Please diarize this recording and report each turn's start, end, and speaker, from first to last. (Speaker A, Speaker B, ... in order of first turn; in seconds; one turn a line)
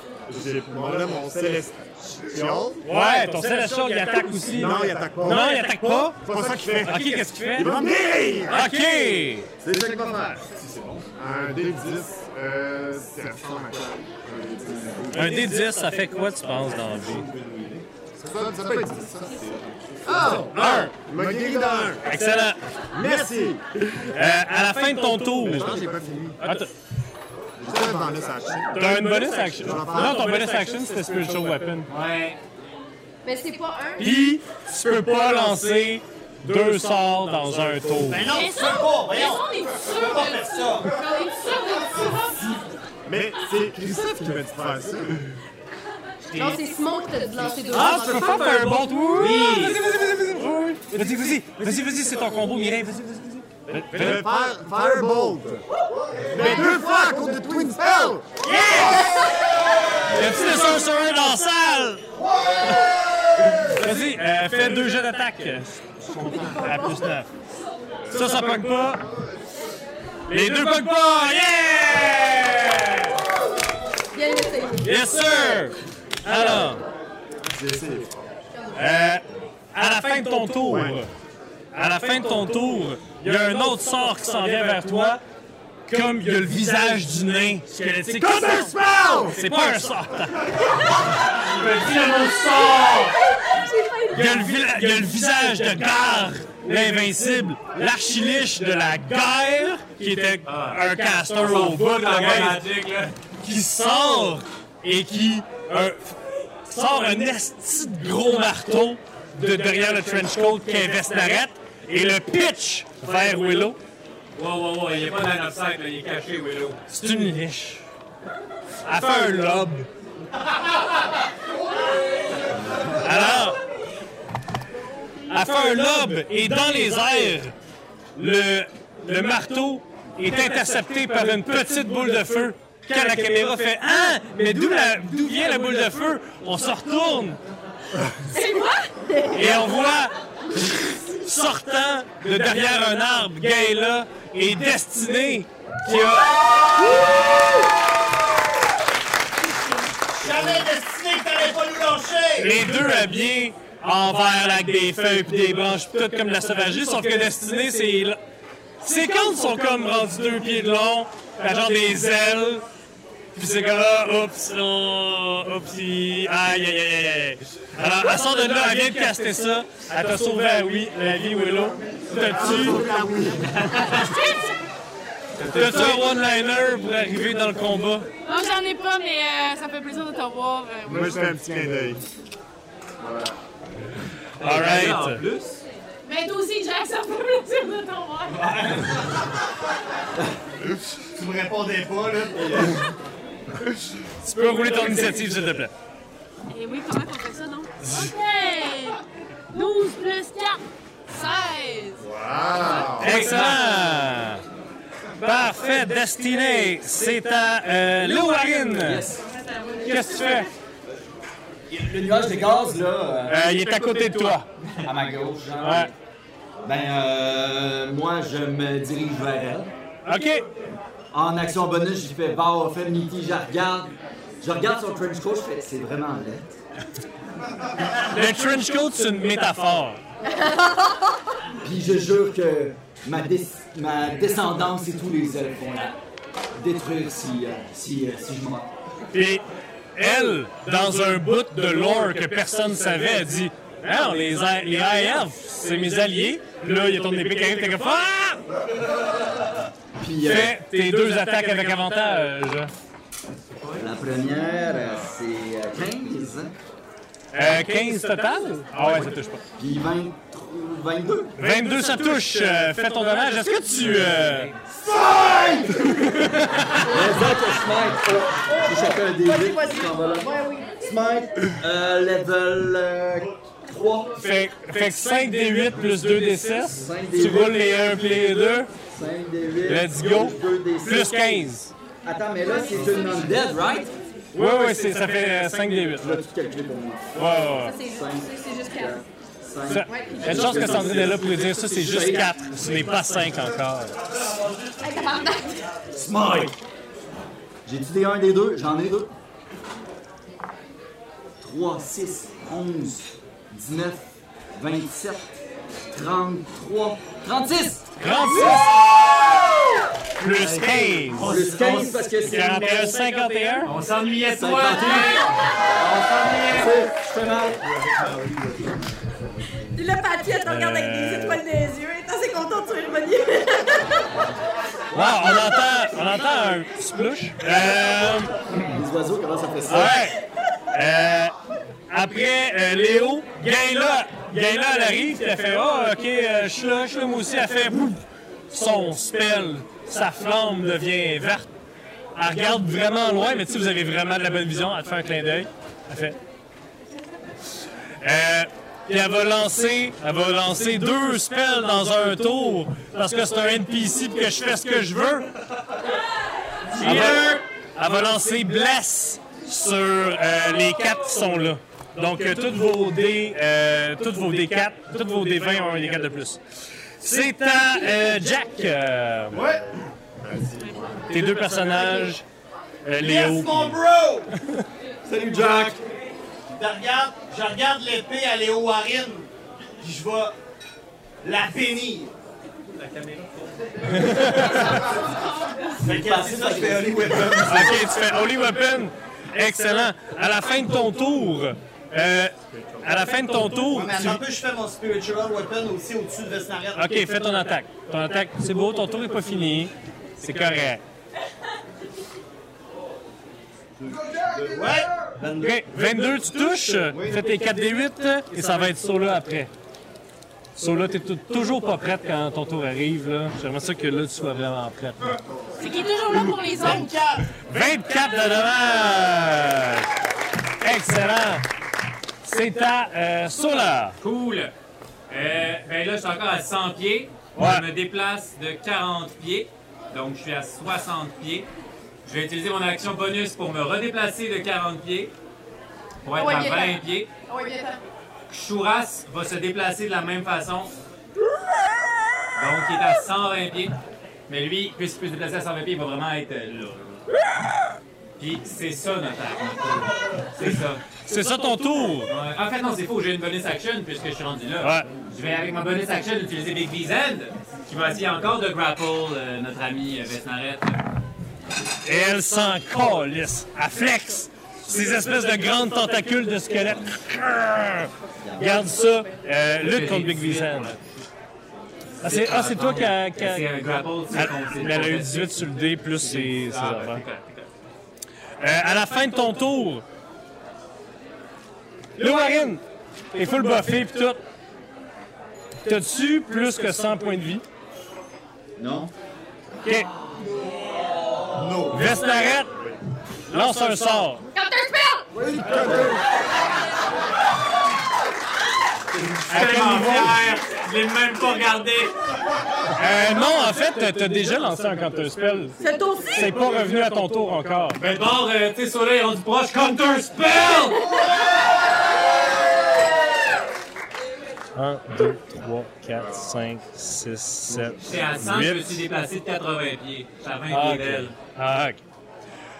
Speaker A: 0.3-2.8
Speaker B: 2.8-7.8
Speaker A: 4.5-8.7
Speaker B: 8.5-9.5
Speaker A: 9.6-15.3
Speaker C: 14.8-15.4
Speaker B: 15.1-17.3
Speaker C: 17.4-17.8
Speaker A: 18.2-22.1
Speaker B: 20.3-20.9
Speaker B: 22.0-22.6
Speaker A: 22.9-23.6
Speaker B: 24.1-25.9
Speaker A: 25.4-26.4
Speaker B: 26.4-26.7
Speaker A: 27.6-30.2
Speaker B: 28.7-31.9
Speaker D: 29.8-30.2
Speaker E: 31.9-32.4
Speaker F: 33.2-34.1
Speaker B: 34.0-38.3
Speaker D: 38.0-41.0
Speaker G: 38.3-42.5
Speaker A: 43.0-45.3
Speaker E: 46.2-46.6
Speaker F: 46.3-48.9
Speaker B: 47.7-54.2
Speaker E: 49.1-49.9
Speaker A: 53.9-55.6
Speaker A: 56.3-58.3
Speaker B: 56.4-56.8
Speaker B: 58.4-59.3
Speaker B: 60.1-62.0
Speaker B: 63.6-67.3
Speaker F: 66.2-67.0
Speaker B: 68.1-69.0
Speaker B: 70.3-73.1
Speaker F: 74.1-74.9
Speaker B: 74.8-76.8
Speaker A: 77.5-78.2
Speaker B: 78.7-79.2
Speaker B: 79.7-81.1
Speaker A: 80.7-81.0
Speaker B: 81.7-85.2
Speaker B: 85.9-90.4
Speaker A: 88.2-89.4
Speaker B: 91.3-93.2
Speaker F: 92.4-94.6
Speaker B: 94.1-102.6
Speaker E: 100.5-100.8
Speaker E: 101.4-103.1
Speaker B: 103.4-113.8
Speaker E: 114.4-116.8
Speaker B: 116.9-117.8
Speaker B: 118.8-119.9
Speaker B: 122.9-123.6
Speaker B: 125.3-127.5
Speaker B: 128.2-137.4
Speaker F: 138.3-139.5
Speaker B: 139.3-146.4
Speaker D: 150.1-152.6
Speaker B: 152.4-158.2
Speaker B: 158.8-162.6
Speaker B: 163.3-172.8
Speaker A: 172.2-173.5
Speaker E: 173.6-173.9
Speaker G: 174.1-174.5
Speaker E: 175.4-176.1
Speaker B: 175.5-178.1
Speaker G: 178.3-181.2
Speaker A: 180.9-182.0
Speaker A: 183.0-183.4
Speaker B: 184.4-185.2
Speaker E: 184.4-185.6
Speaker G: 186.1-188.4
Speaker D: 188.4-188.8
Speaker D: 191.1-192.9
Speaker B: 194.2-195.7
Speaker G: 196.5-199.0
Speaker G: 199.5-202.0
Speaker A: 202.0-203.2
Speaker G: 202.6-203.0
Speaker B: 203.0-204.4
Speaker E: 203.1-203.6
Speaker B: 205.2-209.1
Speaker C: 208.7-209.2
Speaker B: 209.8-210.5
Speaker C: 211.7-213.4
Speaker B: 213.3-214.5
Speaker C: 214.8-215.9
Speaker B: 215.6-215.9
Speaker C: 216.6-219.7
Speaker B: 220.1-220.4
Speaker C: 221.1-226.6
Speaker B: 228.0-230.0
Speaker F: 230.3-231.0
Speaker C: 231.6-236.0
Speaker C: 236.6-238.7
Speaker B: 239.1-239.4
Speaker B: 239.9-248.4
Speaker C: 250.0-250.6
Speaker B: 250.2-252.7
Speaker E: 253.6-254.2
Speaker C: 253.8-256.6
Speaker B: 257.3-259.4
Speaker C: 259.6-261.4
Speaker B: 261.4-264.5
Speaker E: 263.8-264.5
Speaker C: 264.8-266.1
Speaker B: 265.9-266.8
Speaker C: 266.9-274.2
Speaker F: 268.4-270.9
Speaker B: 274.1-278.7
Speaker C: 276.7-277.6
Speaker C: 278.8-281.5
Speaker B: 279.7-281.7
Speaker C: 282.0-283.9
Speaker F: 282.4-283.5
Speaker B: 284.3-286.2
Speaker C: 286.0-292.4
Speaker B: 287.1-287.8
Speaker F: 287.5-289.0
Speaker B: 289.7-294.1
Speaker F: 289.8-290.9
Speaker F: 294.8-295.8
Speaker C: 295.9-296.6
Speaker C: 297.6-299.1
Speaker C: 301.4-305.4
Speaker C: 305.9-308.6
Speaker B: 308.0-309.1
Speaker B: 310.2-311.4
Speaker C: 310.4-313.1
Speaker E: 311.1-312.2
Speaker B: 312.2-313.7
Speaker E: 313.6-316.8
Speaker C: 314.4-315.3
Speaker C: 316.4-318.9
Speaker F: 319.7-324.1
Speaker B: 320.4-321.4
Speaker B: 324.9-328.4
Speaker C: 328.6-330.1
Speaker B: 329.7-330.2
Speaker B: 330.7-331.3
Speaker B: 331.9-341.5
Speaker B: 342.1-346.2
Speaker B: 348.0-355.3
Speaker B: 356.8-366.4
Speaker C: 356.8-357.2
Speaker B: 367.0-369.4
Speaker A: 369.3-369.6
Speaker D: 369.3-369.6
Speaker A: 370.2-371.1
Speaker B: 371.1-372.2
Speaker B: 372.8-373.8
Speaker D: 372.9-374.3
Speaker B: 374.4-374.6
Speaker D: 375.1-375.8
Speaker D: 376.5-380.3
Speaker D: 381.2-382.1
Speaker E: 382.8-383.4
Speaker B: 383.9-384.8
Speaker D: 385.8-387.8
Speaker C: 385.8-387.7
Speaker B: 387.4-394.2
Speaker D: 393.7-396.9
Speaker B: 396.8-400.8
Speaker D: 403.8-405.6
Speaker B: 405.3-409.5
Speaker D: 406.9-407.2
Speaker B: 410.6-415.2
Speaker G: 415.6-417.0
Speaker D: 416.3-417.3
Speaker B: 417.4-419.9
Speaker B: 420.6-421.4
Speaker B: 422.2-423.9
Speaker E: 424.0-424.5
Speaker E: 425.1-431.5
Speaker B: 427.3-427.6
Speaker E: 432.1-435.1
Speaker E: 436.1-437.1
Speaker F: 436.2-437.8
Speaker E: 438.3-440.7
Speaker E: 442.4-443.8
Speaker E: 444.3-447.0
Speaker E: 448.2-450.9
Speaker B: 450.9-452.1
Speaker E: 452.1-460.8
Speaker B: 454.6-454.9
Speaker B: 461.8-470.7
Speaker C: 468.2-468.7
Speaker E: 469.6-471.1
Speaker B: 472.0-473.5
Speaker E: 472.0-475.4
Speaker B: 474.1-477.0
Speaker E: 476.0-477.5
Speaker B: 478.4-479.8
Speaker B: 482.0-484.2
Speaker B: 485.6-487.4
Speaker C: 488.6-488.9
Speaker B: 489.6-489.9
Speaker D: 491.3-491.9
Speaker B: 491.7-492.5
Speaker B: 493.3-494.2
Speaker F: 494.3-495.1
Speaker C: 495.1-496.0
Speaker E: 499.3-501.9
Speaker B: 499.3-500.2
Speaker B: 502.8-505.6
Speaker F: 505.6-506.3
Speaker B: 506.1-507.8
Speaker E: 507.8-510.8
Speaker B: 514.5-518.8
Speaker E: 517.8-521.1
Speaker B: 520.5-521.8